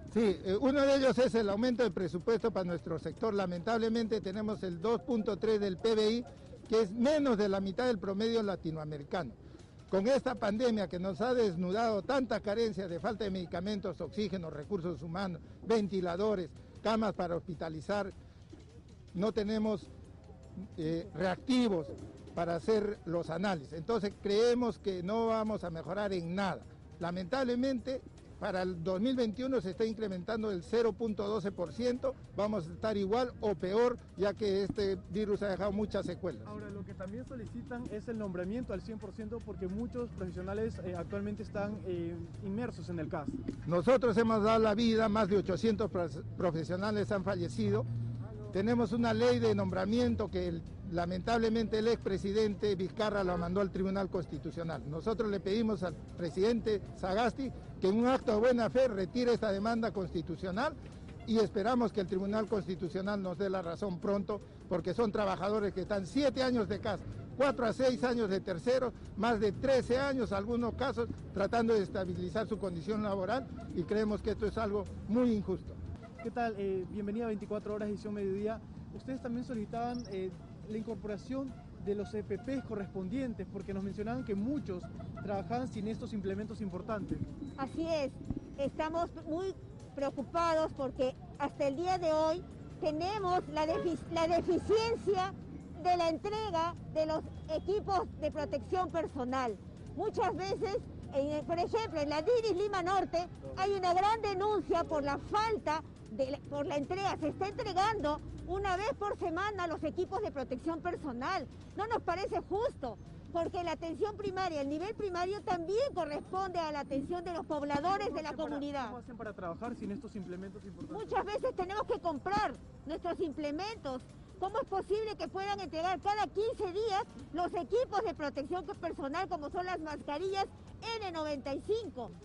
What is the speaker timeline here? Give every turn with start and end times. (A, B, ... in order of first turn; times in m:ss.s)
0:00.1-0:09.4 A
0:09.9-0:18.1 A
0:19.1-0:19.9 A
0:20.6-0:36.5 A
0:36.4-0:43.4 B
0:43.7-0:47.9 A
0:48.5-1:15.8 A
1:16.2-1:27.2 B
1:27.6-1:59.0 C
1:57.8-2:01.2 B
2:00.9-2:12.2 C